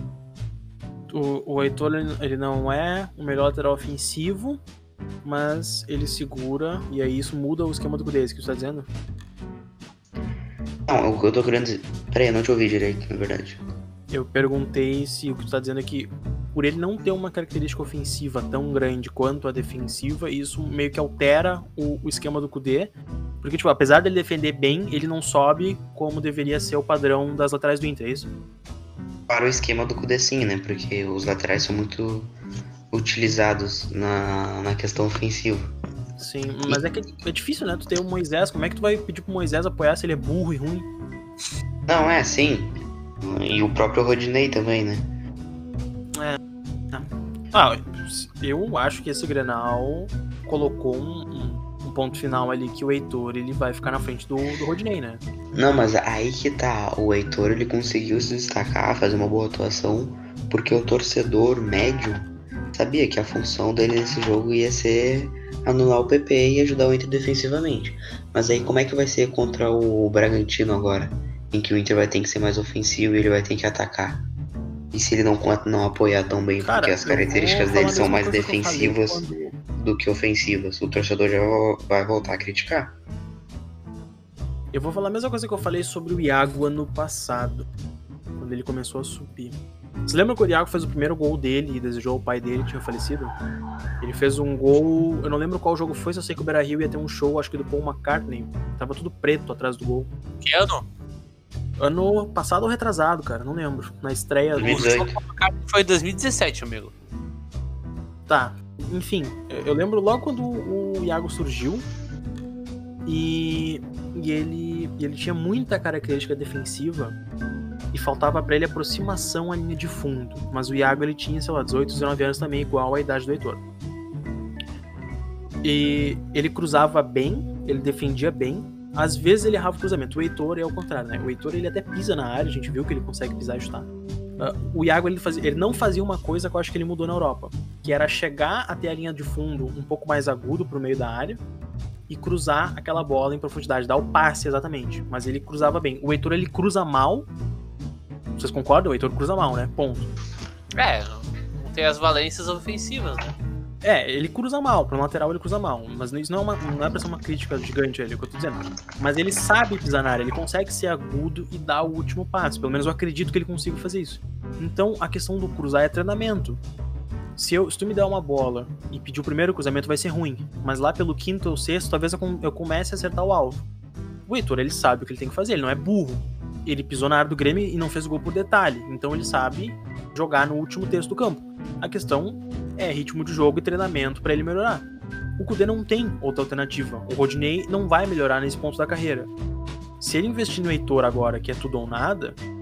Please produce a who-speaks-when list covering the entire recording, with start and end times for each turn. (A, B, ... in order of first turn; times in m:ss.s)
0:01.1-0:04.6 A
0:05.2-0:08.9 A
0:10.9-0:13.6 B
0:14.1-0:28.3 A
0:29.3-0:32.3 B
0:32.9-0:35.8 B
0:36.2-0:40.9 A
0:41.9-0:45.1 B
0:46.9-0:55.2 A
0:55.5-1:14.2 B
1:14.9-1:23.0 B
1:16.6-1:19.6 A
1:24.7-1:27.7 A
1:28.4-1:29.6 A
1:30.1-1:33.3 A
1:34.0-1:40.1 A
1:40.4-1:40.9 C
1:41.8-1:44.9 A
1:44.6-1:45.2 B
1:44.6-1:46.9 C
1:48.3-1:51.9 A
1:53.1-1:57.2 A
1:57.9-2:03.6 A
2:05.6-2:21.4 A
2:22.1-2:27.3 A
2:28.4-2:30.1 A
2:30.8-2:33.4 C
2:33.8-2:46.6 A
2:47.4-2:53.6 A
2:54.3-3:04.9 A
3:05.4-3:09.3 A
3:10.0-3:12.4 A